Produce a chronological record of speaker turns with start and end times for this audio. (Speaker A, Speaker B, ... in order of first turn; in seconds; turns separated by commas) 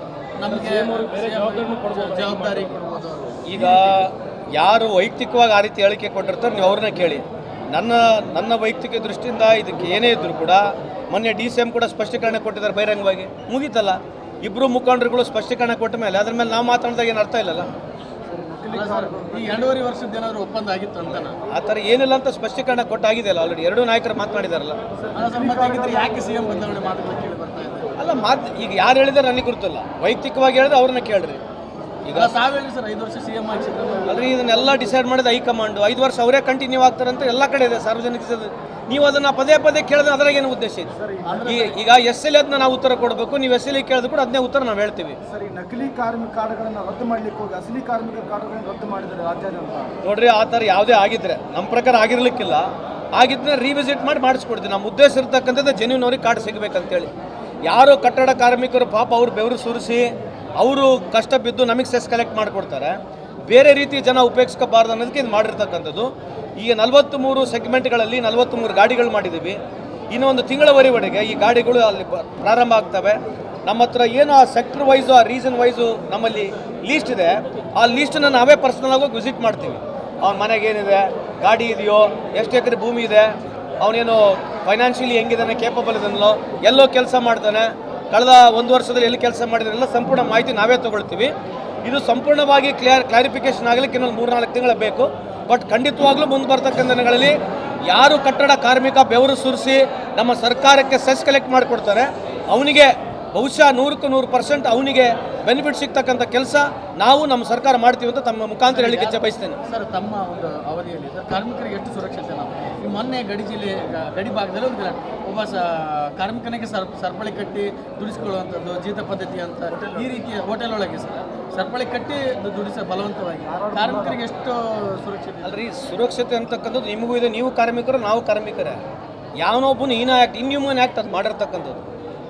Speaker A: 0.4-3.9, Speaker B: 3.5-17.7, Speaker C: 18.3-19.7, Speaker A: 18.7-21.4, Speaker B: 21.5-24.8, Speaker C: 25.1-26.7, Speaker A: 25.1-27.9, Speaker B: 28.0-31.4, Speaker B: 32.1-32.4, Speaker A: 32.1-34.4, Speaker B: 34.0-45.2, Speaker C: 41.0-41.3, Speaker A: 41.2-41.8, Speaker C: 45.3-50.0, Speaker B: 50.0-57.1, Speaker B: 57.7-69.6, Speaker B: 70.1-91.3, Speaker B: 91.8-109.6, Speaker A: 108.7-125.6, Speaker C: 123.5-124.2, Speaker B: 125.4-128.8, Speaker B: 129.4-131.8